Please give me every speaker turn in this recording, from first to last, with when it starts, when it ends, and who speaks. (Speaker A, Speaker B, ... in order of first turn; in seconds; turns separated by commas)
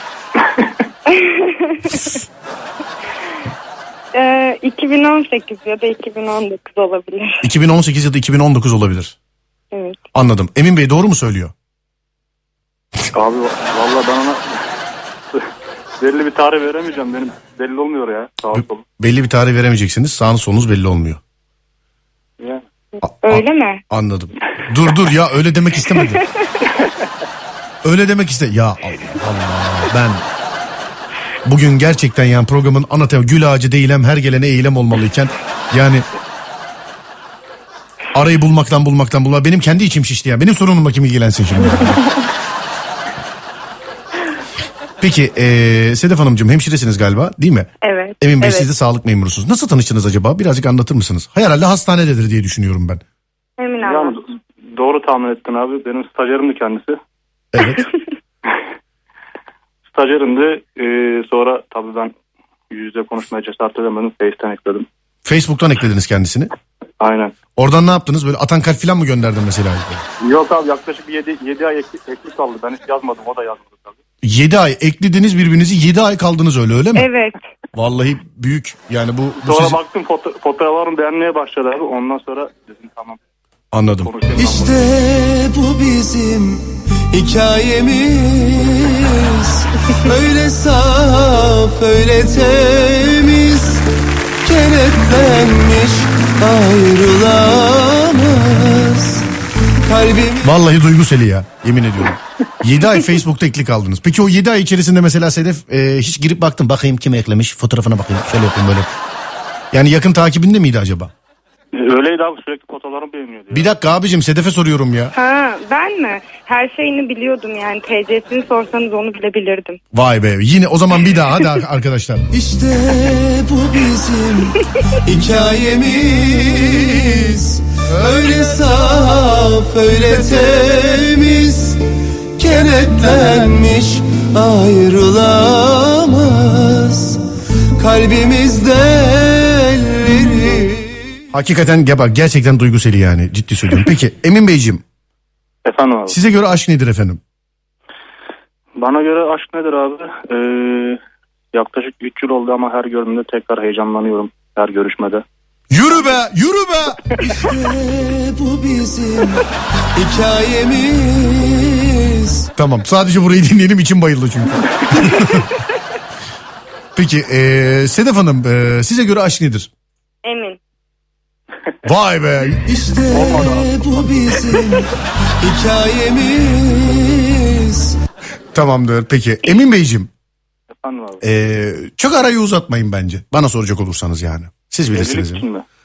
Speaker A: 1.1-2.1, Speaker A: 4.1-7.5, Speaker B: 7.4-9.2, Speaker A: 9.7-10.0, Speaker B: 10.1-11.5, Speaker C: 13.1-14.6, Speaker C: 16.0-18.9, Speaker B: 18.6-21.2, Speaker B: 23.0-26.2, Speaker A: 23.2-23.8, Speaker A: 25.9-26.3, Speaker B: 27.8-30.2, Speaker B: 31.4-36.1, Speaker B: 38.1-42.0, Speaker B: 45.0-47.7, Speaker A: 47.8-48.7, Speaker B: 48.2-53.0, Speaker A: 53.6-54.2, Speaker C: 53.8-57.0, Speaker B: 57.5-57.9, Speaker C: 59.9-62.1, Speaker C: 62.7-64.9, Speaker B: 65.2-66.5, Speaker C: 67.0-67.3, Speaker B: 67.6-70.0, Speaker C: 70.2-74.0, Speaker B: 74.2-77.1, Speaker A: 77.0-77.4, Speaker B: 77.7-79.8, Speaker C: 79.4-83.2, Speaker B: 83.7-84.1, Speaker C: 84.0-84.9, Speaker D: 84.4-93.9, Speaker D: 94.4-100.5, Speaker B: 100.4-108.9, Speaker B: 109.7-111.1, Speaker C: 111.7-113.7, Speaker B: 113.5-115.1, Speaker A: 115.2-119.8, Speaker B: 119.9-122.3, Speaker D: 122.3-131.8, Speaker D: 132.4-141.1, Speaker B: 141.3-144.8, Speaker C: 145.7-146.2, Speaker B: 146.1-147.2, Speaker C: 148.8-151.0, Speaker C: 151.5-155.2, Speaker B: 155.7-157.2, Speaker D: 157.2-162.5, Speaker B: 162.6-165.5, Speaker B: 166.9-169.7, Speaker A: 170.2-170.6, Speaker B: 171.8-172.7, Speaker D: 172.7-178.0, Speaker C: 173.0-174.7, Speaker B: 178.5-180.1, Speaker C: 180.7-181.2, Speaker B: 181.2-185.4, Speaker C: 184.9-185.6